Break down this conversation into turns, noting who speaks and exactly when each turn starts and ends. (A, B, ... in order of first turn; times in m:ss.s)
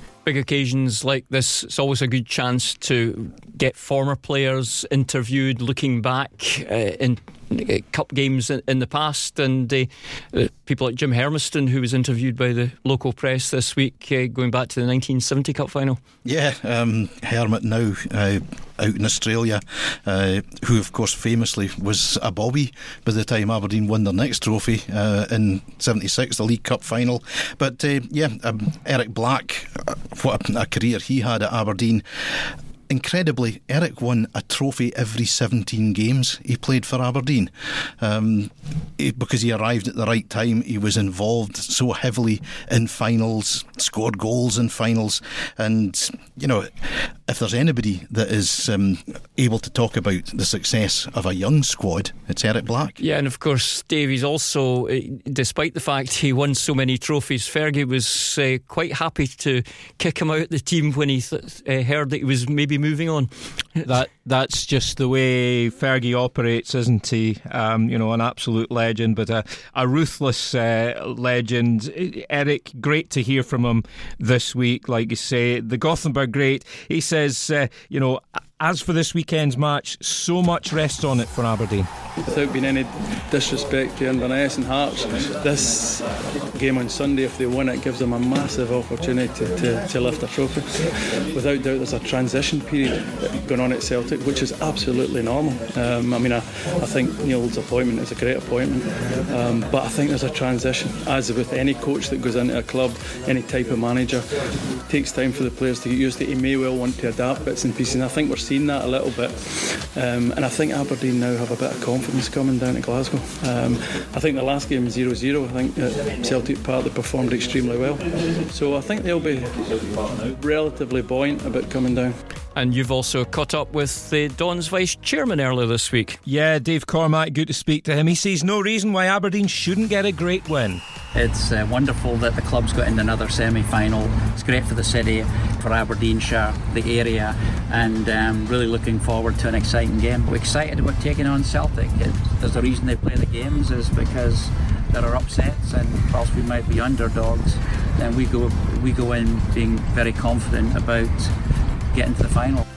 0:00.2-0:16.0 A
0:16.2-0:53.0 B
0:53.0-1:03.8 A
1:03.8-1:21.9 C
1:22.2-2:02.2 D
2:02.6-2:06.2 A
2:06.3-2:10.8 C
2:11.1-2:31.4 E
2:31.9-2:32.6 E